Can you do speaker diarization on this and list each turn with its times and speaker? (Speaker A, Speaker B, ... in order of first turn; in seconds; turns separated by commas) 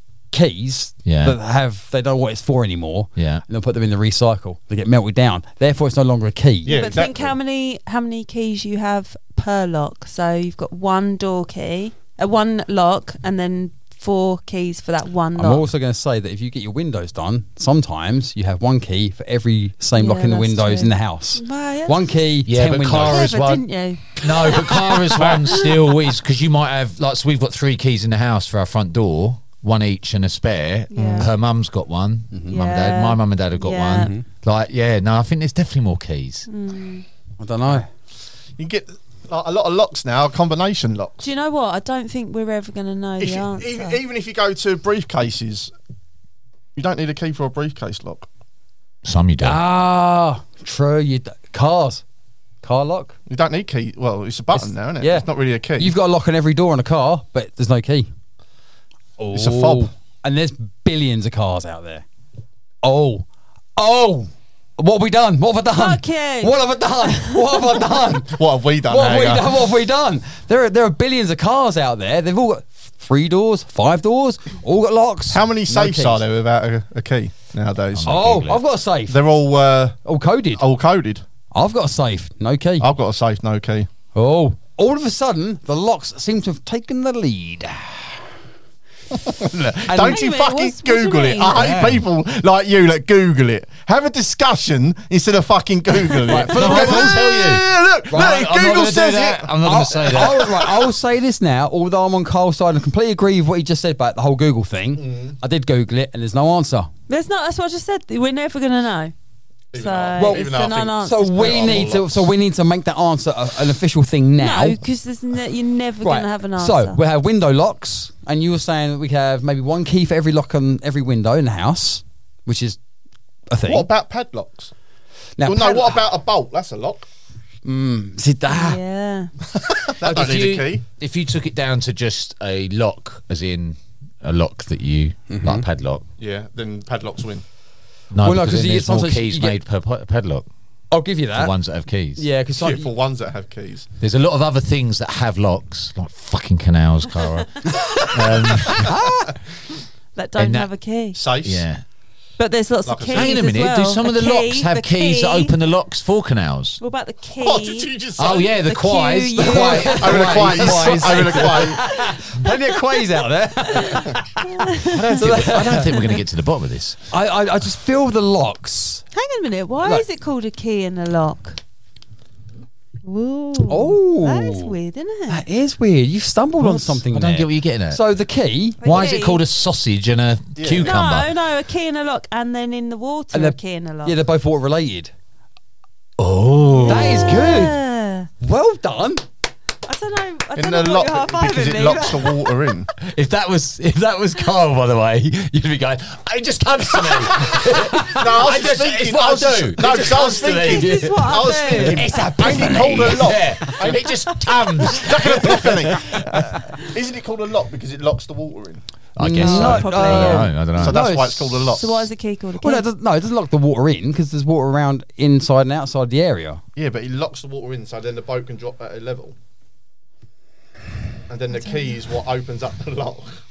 Speaker A: 0.3-6.8, Speaker B: 1.1-1.4, Speaker B: 3.2-3.4, Speaker C: 6.7-7.3, Speaker D: 6.7-15.7, Speaker A: 15.4-23.3, Speaker D: 20.0-22.2, Speaker B: 22.5-36.5, Speaker D: 22.9-25.7, Speaker D: 30.9-31.3, Speaker C: 31.0-31.3, Speaker D: 32.5-34.1, Speaker A: 34.0-34.2, Speaker D: 36.5-37.0, Speaker A: 37.4-37.9, Speaker C: 38.6-41.3, Speaker D: 41.2-44.0, Speaker C: 43.2-45.7, Speaker C: 46.8-48.3, Speaker B: 49.0-49.6, Speaker A: 49.4-52.0, Speaker A: 52.6-53.2, Speaker C: 53.3-55.9, Speaker A: 54.5-58.1, Speaker A: 59.2-62.0, Speaker C: 59.3-59.9, Speaker A: 62.8-76.2, Speaker D: 65.7-67.8, Speaker C: 68.2-69.5, Speaker C: 75.3-78.4, Speaker B: 77.9-78.6, Speaker A: 78.0-79.2, Speaker C: 79.1-80.0, Speaker A: 80.0-80.6, Speaker C: 80.6-81.2, Speaker A: 81.5-82.9, Speaker C: 82.8-83.9, Speaker A: 84.1-88.2, Speaker C: 89.1-100.9, Speaker A: 89.9-90.2, Speaker D: 90.1-91.7, Speaker B: 91.5-92.0, Speaker A: 96.2-97.2, Speaker B: 96.3-100.6, Speaker A: 98.1-98.5, Speaker A: 99.6-106.9, Speaker C: 105.0-105.3, Speaker D: 107.1-109.1, Speaker C: 109.7-112.3, Speaker D: 109.7-111.9, Speaker A: 110.2-114.8, Speaker D: 114.4-117.0, Speaker A: 116.0-122.8, Speaker A: 123.5-123.9, Speaker C: 123.7-124.7, Speaker A: 125.4-126.0, Speaker C: 125.4-127.0, Speaker A: 127.7-128.8, Speaker D: 128.5-129.3, Speaker C: 129.5-130.8, Speaker B: 130.0-136.1, Speaker A: 135.3-135.7, Speaker C: 136.2-137.4, Speaker B: 138.1-140.5, Speaker A: 138.2-139.6, Speaker A: 140.9-141.5, Speaker B: 141.3-142.3, Speaker A: 142.2-142.9, Speaker C: 142.6-143.9, Speaker B: 144.0-148.9, Speaker A: 147.7-149.3, Speaker D: 150.2-151.2, Speaker B: 150.4-150.7, Speaker C: 151.2-151.7, Speaker B: 151.4-151.8, Speaker D: 152.4-155.6, Speaker C: 152.9-153.4, Speaker B: 153.1-156.8, Speaker D: 156.8-157.9, Speaker C: 157.4-158.5, Speaker B: 158.2-161.2, Speaker D: 158.6-160.4, Speaker A: 159.4-166.1, Speaker C: 159.8-161.8, Speaker D: 161.2-163.1, Speaker D: 163.7-165.3, Speaker B: 164.9-167.0, Speaker A: 167.1-169.0, Speaker D: 169.1-171.6, Speaker D: 173.0-175.4, Speaker A: 173.7-174.8, Speaker A: 175.3-178.8, Speaker B: 176.6-178.0, Speaker B: 178.8-181.3, Speaker D: 178.8-179.4, Speaker C: 180.6-181.0, Speaker D: 180.8-184.2, Speaker A: 183.3-185.1, Speaker B: 186.2-187.4, Speaker A: 186.8-187.8, Speaker D: 186.8-188.3, Speaker A: 188.4-189.2, Speaker D: 189.9-192.5, Speaker C: 190.6-192.9, Speaker B: 193.0-201.3, Speaker C: 197.9-204.1, Speaker D: 199.9-202.1, Speaker A: 201.7-203.9, Speaker B: 202.1-206.4, Speaker C: 204.8-208.8, Speaker B: 209.2-211.0, Speaker A: 209.2-211.9, Speaker D: 209.4-210.5, Speaker C: 210.8-212.1, Speaker D: 211.7-212.8, Speaker A: 212.6-216.6, Speaker C: 216.8-219.3, Speaker C: 221.3-223.3, Speaker D: 221.5-221.9